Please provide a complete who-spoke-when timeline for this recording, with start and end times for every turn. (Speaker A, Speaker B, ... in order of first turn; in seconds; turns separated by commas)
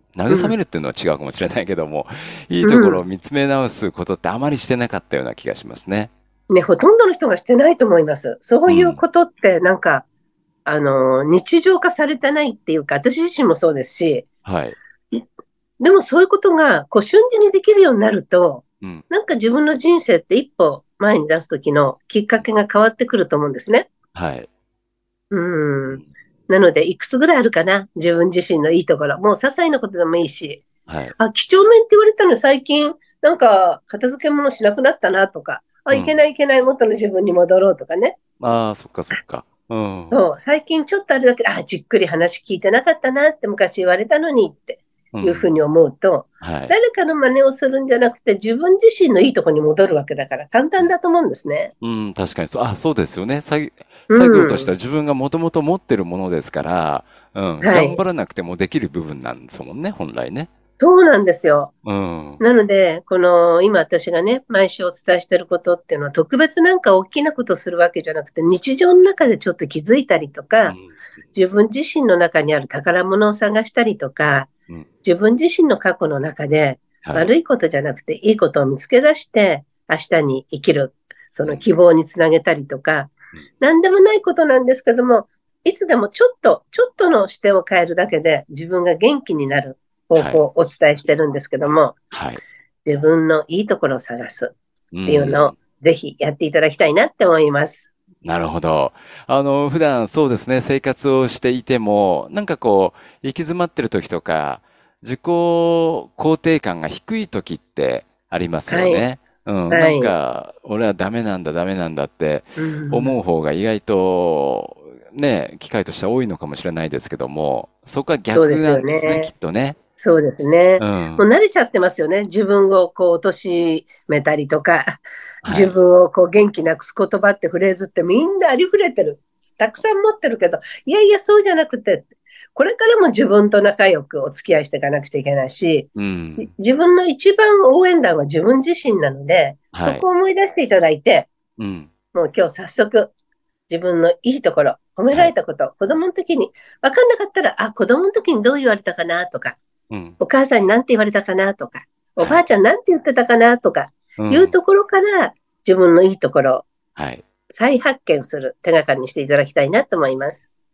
Speaker A: 0.1-6.1, Speaker B: 0.3-0.6, Speaker B: 2.6-3.0, Speaker B: 6.5-10.1, Speaker A: 8.7-9.0, Speaker B: 10.7-14.2, Speaker A: 14.4-14.8, Speaker B: 15.8-23.9, Speaker A: 24.1-24.5, Speaker B: 25.3-30.6, Speaker A: 30.9-31.1, Speaker B: 31.2-38.2, Speaker A: 35.9-36.2, Speaker A: 38.4-40.2, Speaker B: 40.1-51.7, Speaker A: 45.1-45.6, Speaker A: 46.4-46.7, Speaker A: 51.8-60.5, Speaker B: 54.1-54.7, Speaker B: 57.6-58.0, Speaker B: 60.8-61.7, Speaker A: 61.8-62.4, Speaker B: 62.4-70.8, Speaker B: 71.3-74.5, Speaker B: 75.0-92.0, Speaker A: 77.0-77.3, Speaker A: 90.1-90.5, Speaker A: 92.1-92.4, Speaker B: 92.8-94.5, Speaker A: 94.9-95.5, Speaker B: 95.0-97.9, Speaker A: 98.2-119.8, Speaker B: 108.7-109.0, Speaker B: 109.7-110.1, Speaker B: 112.5-113.2, Speaker B: 118.3-119.3, Speaker B: 120.0-135.9, Speaker A: 120.8-121.2, Speaker A: 125.4-125.7, Speaker A: 135.9-136.5, Speaker B: 136.4-141.3, Speaker A: 139.7-140.1, Speaker A: 141.6-141.9, Speaker B: 142.1-143.1, Speaker B: 143.7-149.6, Speaker A: 149.9-150.2, Speaker B: 150.2-156.7, Speaker A: 154.2-154.5, Speaker A: 156.9-157.2, Speaker B: 157.5-160.4